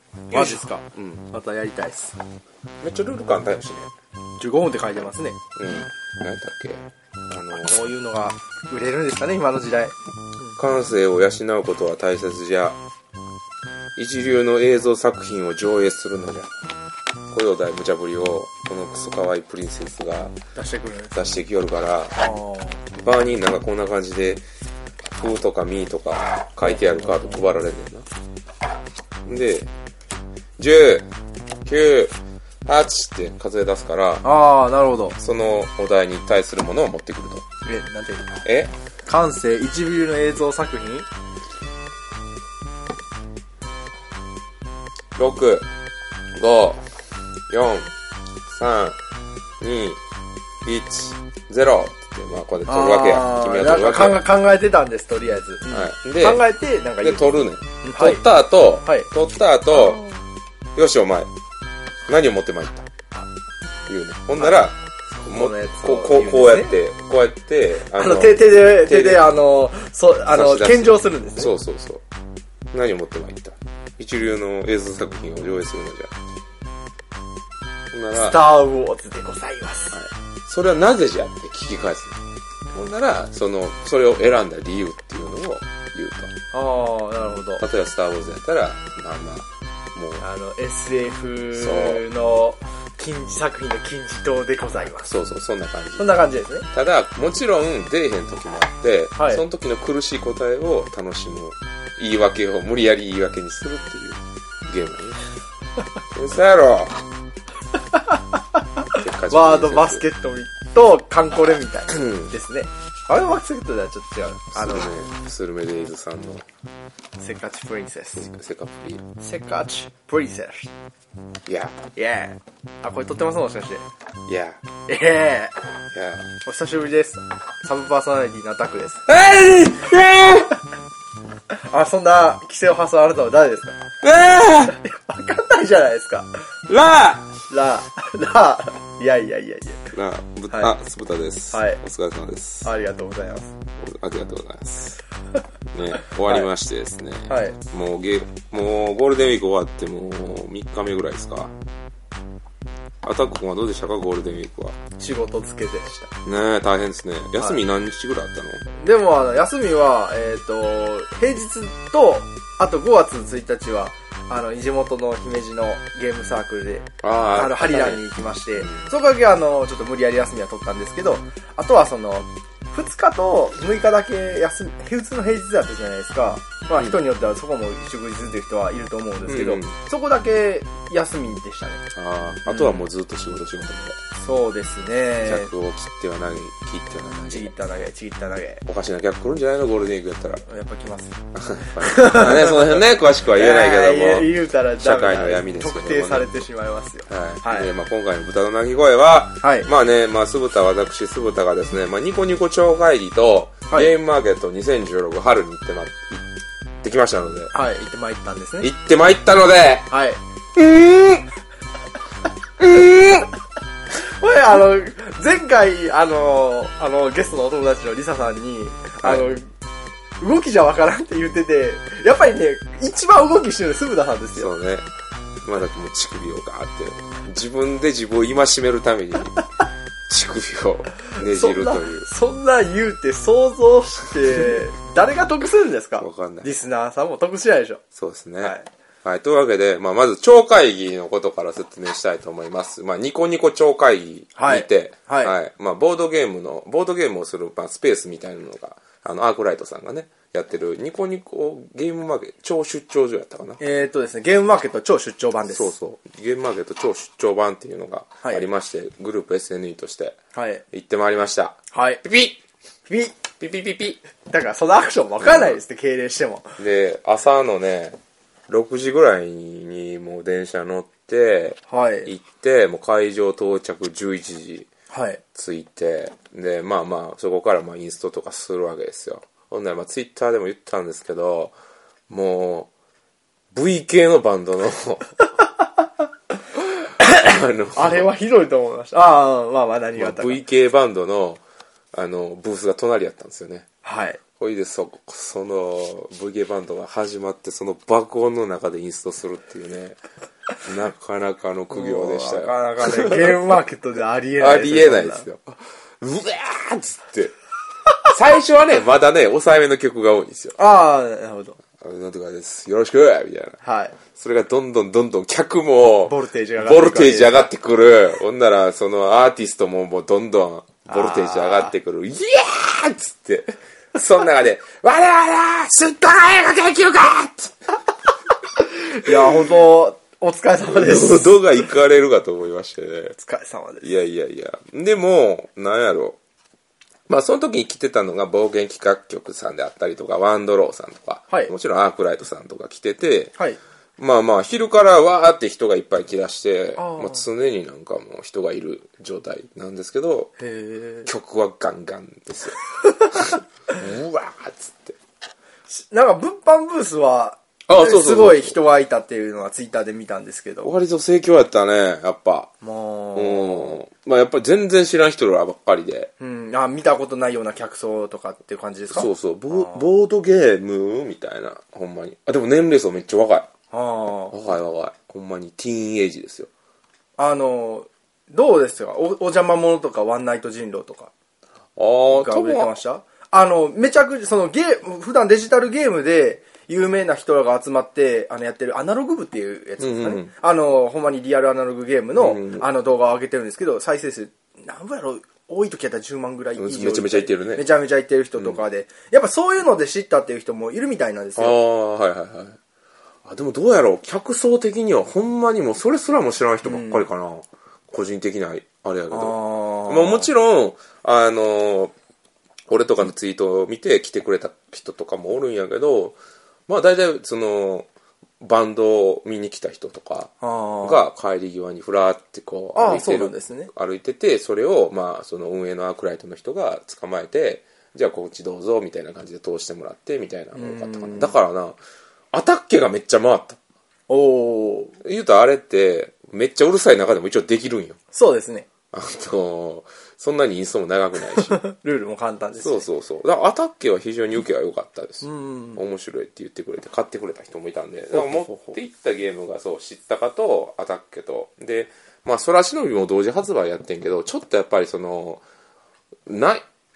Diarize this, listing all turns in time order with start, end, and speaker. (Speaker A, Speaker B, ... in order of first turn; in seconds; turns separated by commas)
Speaker A: 0.3-1.3, Speaker B: 0.3-2.1, Speaker A: 2.8-3.9, Speaker B: 4.4-5.4, Speaker A: 5.5-7.8, Speaker B: 7.6-10.6, Speaker A: 10.6-12.8, Speaker A: 13.9-16.5, Speaker A: 17.3-20.4, Speaker B: 20.5-21.2, Speaker A: 21.1-22.2, Speaker B: 22.2-22.8, Speaker A: 22.9-24.4, Speaker A: 25.1-28.1, Speaker A: 29.2-29.7, Speaker A: 30.6-31.1, Speaker A: 31.6-32.1, Speaker A: 32.6-34.2, Speaker B: 34.2-35.2, Speaker A: 35.2-37.4, Speaker B: 37.6-38.4, Speaker A: 38.4-38.7, Speaker B: 39.0-41.1, Speaker A: 45.1-45.7, Speaker A: 46.3-46.8, Speaker A: 47.5-47.9, Speaker A: 48.5-49.0, Speaker A: 49.6-50.0, Speaker A: 50.6-54.2, Speaker B: 52.7-58.2, Speaker A: 55.7-56.4, Speaker A: 57.0-60.0, Speaker B: 59.7-60.1, Speaker A: 60.8-61.3, Speaker A: 62.1-62.9, Speaker A: 63.9-69.3, Speaker B: 64.4-64.7, Speaker B: 65.2-66.7, Speaker B: 67.9-71.5, Speaker A: 70.3-72.0, Speaker A: 72.7-76.1, Speaker A: 77.9-78.5, Speaker B: 78.1-80.0, Speaker A: 79.9-82.2, Speaker A: 82.7-86.3, Speaker B: 86.5-87.6, Speaker A: 87.6-90.2, Speaker B: 90.2-95.1, Speaker A: 91.5-92.0, Speaker A: 95.0-96.1, Speaker B: 96.0-96.7, Speaker A: 96.7-105.2, Speaker B: 99.2-99.4, Speaker A: 106.1-107.0, Speaker B: 107.9-108.2, Speaker B: 108.8-114.9, Speaker A: 108.9-110.0, Speaker A: 111.9-112.3, Speaker A: 114.5-116.4, Speaker B: 117.2-118.3, Speaker A: 118.2-119.0, Speaker B: 119.2-120.7, Speaker A: 121.5-121.8, Speaker B: 121.9-123.8, Speaker A: 124.3-124.6, Speaker B: 124.9-125.5, Speaker A: 125.9-126.3, Speaker B: 126.4-129.0, Speaker A: 129.1-130.5, Speaker B: 131.7-133.9, Speaker A: 134.0-134.8, Speaker B: 134.7-136.4, Speaker A: 136.7-137.3, Speaker B: 137.5-139.9, Speaker A: 139.9-142.7, Speaker B: 141.5-141.8, Speaker B: 142.6-143.5, Speaker A: 143.8-145.0, Speaker A: 145.7-151.5, Speaker B: 146.0-146.5, Speaker B: 147.3-147.6, Speaker A: 153.0-154.8, Speaker B: 155.0-156.1, Speaker A: 156.2-158.6, Speaker B: 158.8-181.8, Speaker A: 167.0-168.0, Speaker A: 179.3-179.8, Speaker A: 181.9-184.0, Speaker B: 182.4-182.8, Speaker B: 184.2-185.5, Speaker A: 185.2-187.5, Speaker B: 187.3-188.6, Speaker A: 188.7-190.4, Speaker B: 190.5-197.7, Speaker A: 191.3-196.4, Speaker A: 197.1-206.2, Speaker B: 199.4-199.7, Speaker A: 206.8-207.5, Speaker B: 207.5-208.7, Speaker A: 208.6-209.9, Speaker B: 209.9-210.2, Speaker A: 210.5-211.3, Speaker A: 212.6-213.3, Speaker B: 214.0-219.4, Speaker A: 219.0-219.3, Speaker B: 220.2-224.5, Speaker A: 224.3-224.8, Speaker A: 225.4-229.4, Speaker A: 230.1-232.1, Speaker B: 231.1-237.8, Speaker A: 236.0-236.5, Speaker A: 237.9-253.6, Speaker B: 238.4-238.7, Speaker B: 244.3-245.3, Speaker B: 253.6-255.7, Speaker A: 255.5-260.2, Speaker B: 260.3-260.6, Speaker A: 260.7-262.4, Speaker B: 261.7-262.0, Speaker B: 262.9-263.1, Speaker A: 263.4-264.0, Speaker B: 264.3-266.5, Speaker A: 265.2-265.6, Speaker A: 266.6-268.0, Speaker A: 268.5-274.7, Speaker B: 271.7-272.1, Speaker B: 274.9-275.2, Speaker A: 275.3-281.5, Speaker A: 282.1-282.7, Speaker A: 283.5-285.1, Speaker B: 287.0-290.4, Speaker A: 287.1-288.1, Speaker A: 289.9-291.4, Speaker A: 291.9-293.7, Speaker B: 293.8-294.2, Speaker A: 294.4-300.0, Speaker A: 300.6-303.5, Speaker B: 301.7-305.2, Speaker A: 304.4-307.3, Speaker A: 308.1-310.6, Speaker B: 310.6-311.6, Speaker A: 311.8-313.6, Speaker B: 313.6-314.0, Speaker A: 314.1-327.6, Speaker B: 316.1-317.5, Speaker B: 320.9-321.7, Speaker B: 328.8-331.4, Speaker A: 329.1-329.6, Speaker A: 330.7-333.2, Speaker B: 333.2-333.9, Speaker A: 333.8-336.2, Speaker A: 337.1-343.3, Speaker A: 344.0-350.3, Speaker B: 346.8-347.2, Speaker B: 350.4-351.1, Speaker A: 351.1-352.6, Speaker A: 353.1-354.9, Speaker B: 355.7-360.7, Speaker A: 357.7-358.6, Speaker A: 360.6-362.5, Speaker B: 362.6-363.8, Speaker A: 363.1-366.1, Speaker B: 366.2-369.9, Speaker A: 368.9-373.5, Speaker B: 373.7-374.3, Speaker A: 374.3-376.5, Speaker B: 377.2-381.1, Speaker A: 381.8-382.7, Speaker B: 382.1-401.6, Speaker A: 389.8-390.3, Speaker A: 392.2-392.7, Speaker A: 396.6-397.6, Speaker A: 398.4-398.6, Speaker A: 401.4-402.6, Speaker A: 403.2-411.9, Speaker B: 406.6-407.0, Speaker B: 409.1-410.3, Speaker A: 412.7-416.2, Speaker A: 416.7-417.9, Speaker A: 418.4-431.8, Speaker B: 420.4-421.0, Speaker B: 422.7-423.7, Speaker B: 430.5-431.3, Speaker A: 432.3-433.6, Speaker B: 434.1-434.9, Speaker A: 435.0-438.0, Speaker B: 438.1-438.7, Speaker A: 438.9-441.6, Speaker B: 441.3-442.9, Speaker A: 442.6-455.4, Speaker B: 445.2-445.8, Speaker B: 448.1-448.8, Speaker A: 456.3-456.6